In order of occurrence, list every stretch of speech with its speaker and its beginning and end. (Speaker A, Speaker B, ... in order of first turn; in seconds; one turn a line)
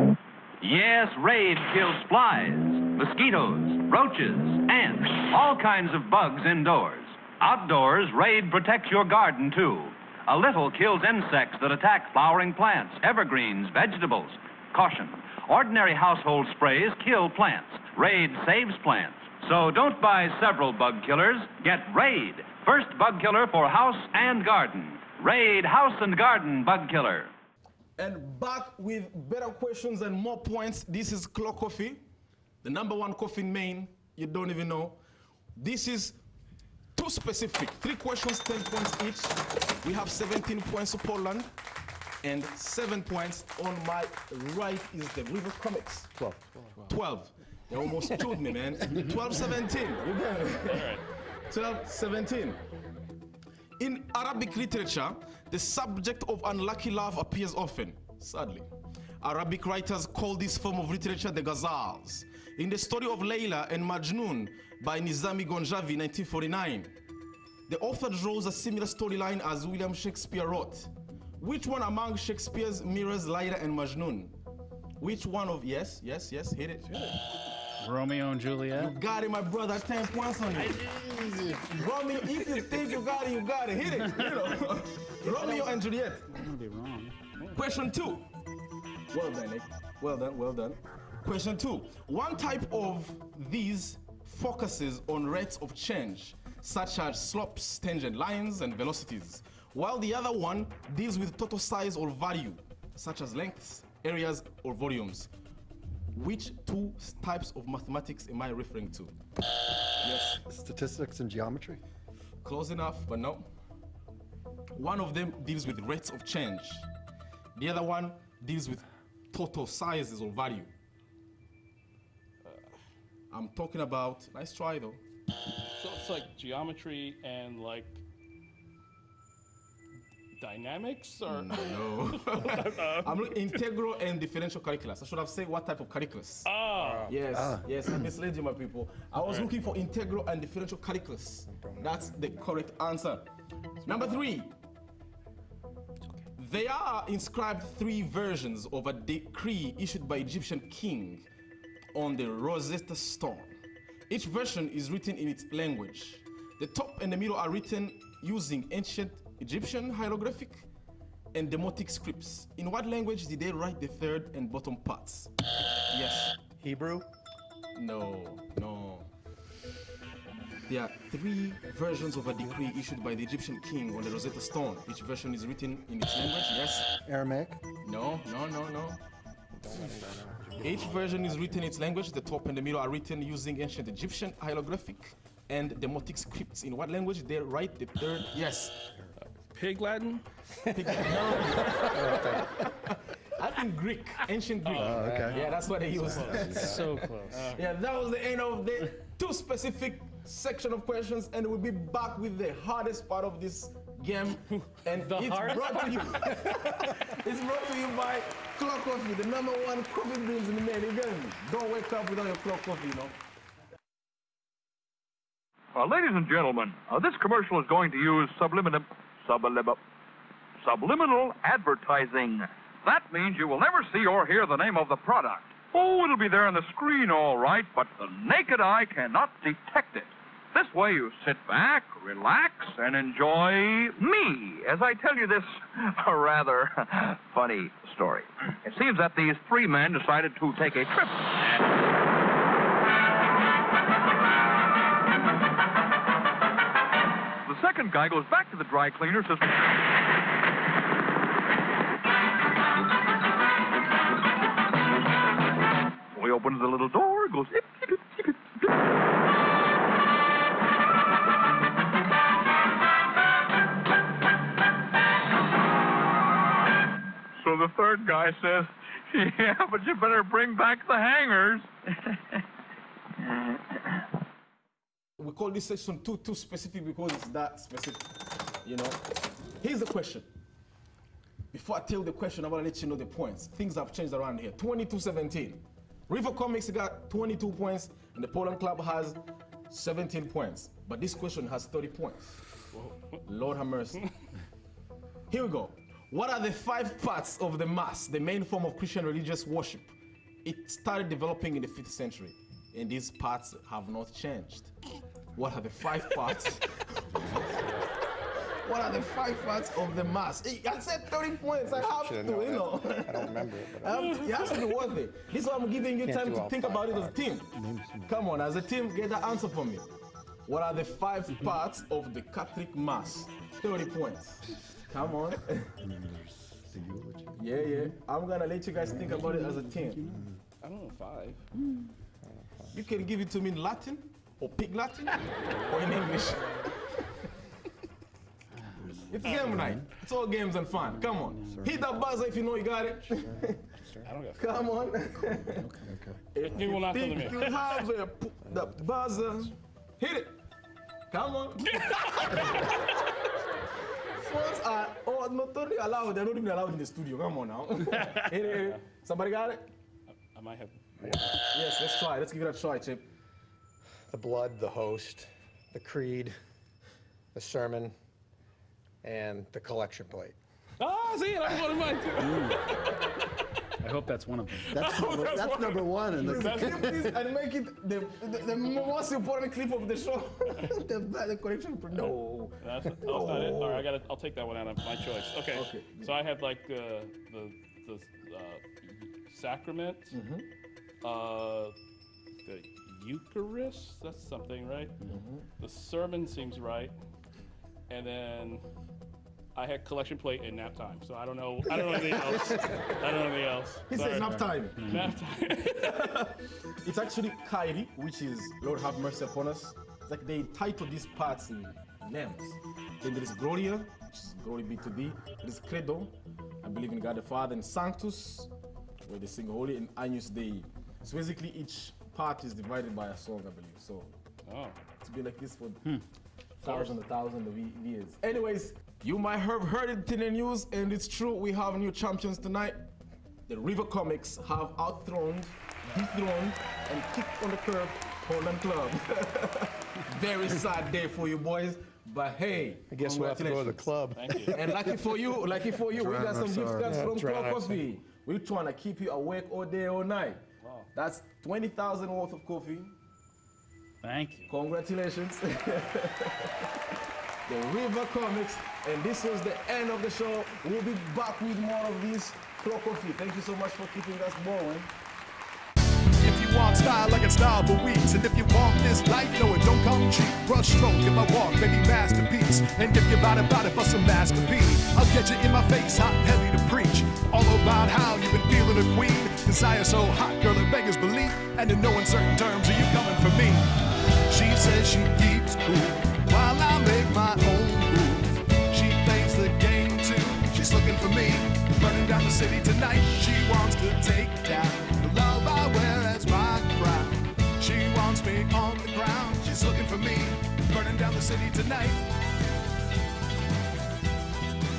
Speaker A: 0.6-27.3
Speaker B: 28.0-32.0
Speaker B: 32.6-35.0
Speaker B: 35.5-36.2
Speaker B: 36.9-41.5
Speaker B: 42.2-46.2
Speaker C: 46.2-46.5
Speaker B: 46.9-52.6
Speaker D: 50.7-51.0
Speaker B: 53.8-58.7
Speaker B: 59.2-66.9
Speaker B: 67.7-74.3
Speaker B: 75.0-76.9
Speaker E: 77.8-78.9
Speaker B: 78.8-80.9
Speaker E: 80.5-81.8
Speaker B: 81.7-86.3
Speaker E: 84.0-84.3
Speaker E: 86.3-87.1
Speaker D: 87.4-87.7
Speaker B: 87.5-88.2
Speaker B: 89.1-105.3
Speaker B: 106.1-109.1
Speaker B: 110.0-110.4
Speaker C: 110.5-111.8
Speaker B: 112.4-113.5
Speaker B: 114.7-116.9
Speaker B: 117.5-120.7
Speaker D: 122.4-122.7
Speaker B: 123.3-125.0
Speaker D: 125.8-128.0
Speaker D: 130.4-133.6
Speaker B: 131.2-136.5
Speaker D: 136.4-137.1
Speaker F: 136.7-137.4
Speaker B: 137.1-143.3
Speaker C: 137.3-138.0
Speaker F: 141.5-142.3
Speaker B: 143.8-144.5
Speaker D: 143.9-144.1
Speaker B: 146.4-151.2
Speaker B: 151.9-153.6
Speaker B: 154.1-160.7
Speaker B: 161.3-165.3
Speaker B: 165.9-166.3
Speaker F: 166.6-167.1
Speaker B: 167.7-169.1
Speaker B: 170.7-176.9
Speaker C: 177.1-177.6
Speaker B: 177.8-179.0
Speaker F: 179.6-180.9
Speaker C: 179.7-181.2
Speaker B: 180.6-188.9
Speaker D: 189.3-192.4
Speaker B: 190.7-213.2
Speaker F: 191.9-192.5
Speaker D: 194.7-197.6
Speaker C: 194.7-195.4
Speaker F: 194.8-195.4
Speaker C: 196.1-196.6
Speaker F: 196.2-196.8
Speaker E: 196.5-197.4
Speaker E: 204.9-205.9
Speaker G: 215.7-219.8
Speaker G: 220.6-241.6
Speaker G: 247.4-249.8
Speaker G: 256.1-258.3
Speaker G: 267.4-272.4
Speaker B: 275.2-279.0
Speaker B: 279.6-280.3
Speaker B: 281.5-289.2
Speaker B: 289.7-292.4
Speaker D: 292.7-293.2
Speaker B: 293.2-294.1
Speaker B: 295.3-304.7
Speaker B: 305.4-307.5
Speaker C: 307.2-307.6
Speaker F: 307.5-307.8
Speaker B: 308.6-317.6
Speaker F: 311.7-314.5
Speaker D: 313.9-314.7
Speaker F: 316.0-317.2
Speaker C: 317.5-318.2
Speaker B: 318.1-319.9
Speaker B: 320.4-325.7
Speaker C: 325.8-327.7
Speaker B: 327.4-330.1
Speaker C: 330.0-330.4
Speaker D: 330.6-331.4
Speaker B: 332.7-336.6
Speaker D: 335.4-336.7
Speaker C: 338.8-339.9
Speaker B: 339.1-343.7
Speaker D: 339.2-339.5
Speaker E: 341.0-341.6
Speaker C: 341.4-341.8
Speaker D: 344.0-344.8
Speaker B: 344.4-345.8
Speaker C: 345.8-346.2
Speaker B: 346.3-350.4
Speaker D: 346.5-347.8
Speaker B: 351.1-352.9
Speaker B: 354.2-359.7
Speaker D: 358.5-358.8
Speaker D: 360.2-361.3
Speaker F: 361.0-361.3
Speaker B: 361.5-363.1
Speaker F: 364.1-366.4
Speaker F: 367.3-367.9
Speaker F: 369.0-370.4
Speaker D: 370.8-373.2
Speaker E: 372.2-372.6
Speaker E: 373.8-374.7
Speaker C: 374.7-377.1
Speaker D: 374.7-376.9
Speaker B: 376.1-383.9
Speaker D: 382.6-390.2
Speaker B: 385.5-386.1
Speaker B: 390.1-390.4
Speaker D: 391.0-391.7
Speaker D: 392.4-395.0
Speaker B: 395.1-395.5
Speaker D: 395.6-396.9
Speaker D: 397.9-398.6
Speaker D: 399.6-406.1
Speaker B: 403.9-404.8
Speaker E: 404.2-405.1
Speaker B: 405.7-418.5
Speaker B: 419.0-424.1
Speaker D: 424.5-424.8
Speaker B: 425.0-425.9
Speaker B: 426.6-432.9
Speaker D: 426.6-426.9
Speaker B: 433.5-443.9
Speaker F: 442.9-445.1
Speaker D: 444.1-444.6
Speaker B: 444.5-450.4
Speaker C: 445.9-447.1
Speaker F: 446.1-447.8
Speaker D: 450.6-450.9
Speaker B: 450.9-452.9
Speaker E: 454.0-454.5
Speaker B: 454.5-456.6
Speaker B: 457.5-464.9
Speaker H: 466.2-483.7
Speaker H: 484.3-502.1